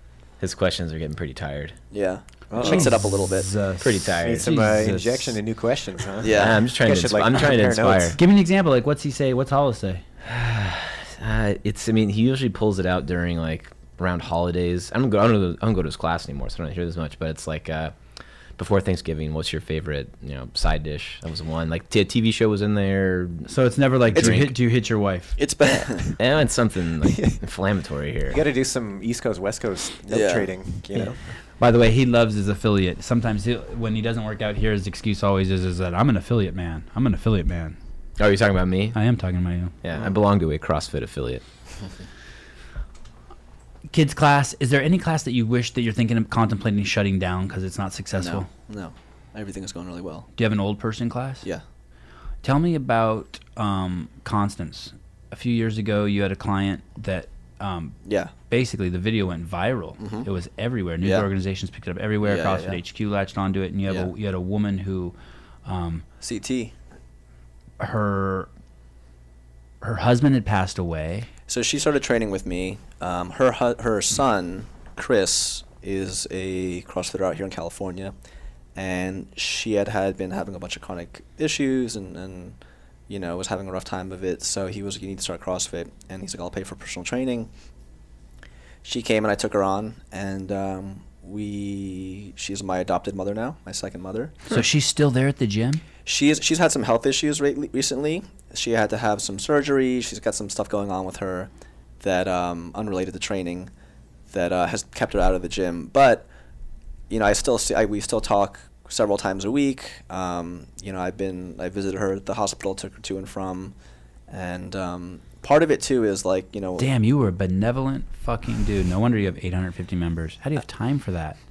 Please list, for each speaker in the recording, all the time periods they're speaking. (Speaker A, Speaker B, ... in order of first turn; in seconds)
Speaker A: 0.4-1.8, 3.8-4.5, 6.3-8.2, 10.2-17.9, 18.6-23.5, 24.1-24.5, 26.1-28.4, 38.2-39.0, 39.8-41.4
Speaker B: 1.9-3.5, 6.2-6.7, 25.4-26.1, 30.1-30.5, 48.2-50.3, 58.0-58.3, 60.0-60.3, 61.0-61.3, 62.2-62.8, 66.2-66.7, 71.5-78.1, 78.8-82.6, 83.1-87.5, 88.8-94.4, 96.0-101.5, 102.0-103.7, 104.3-106.3, 107.1-113.7, 114.3-116.9
Speaker C: 2.5-2.9, 4.2-8.2, 28.3-31.2
Speaker D: 2.6-5.4, 8.2-10.0, 23.5-25.4, 31.6-37.8, 38.9-39.7, 43.9-48.5, 50.4-51.5, 52.4-58.0, 58.5-65.1, 65.7-66.0, 67.8-68.5, 69.8-71.3, 94.5-95.8, 116.8-121.4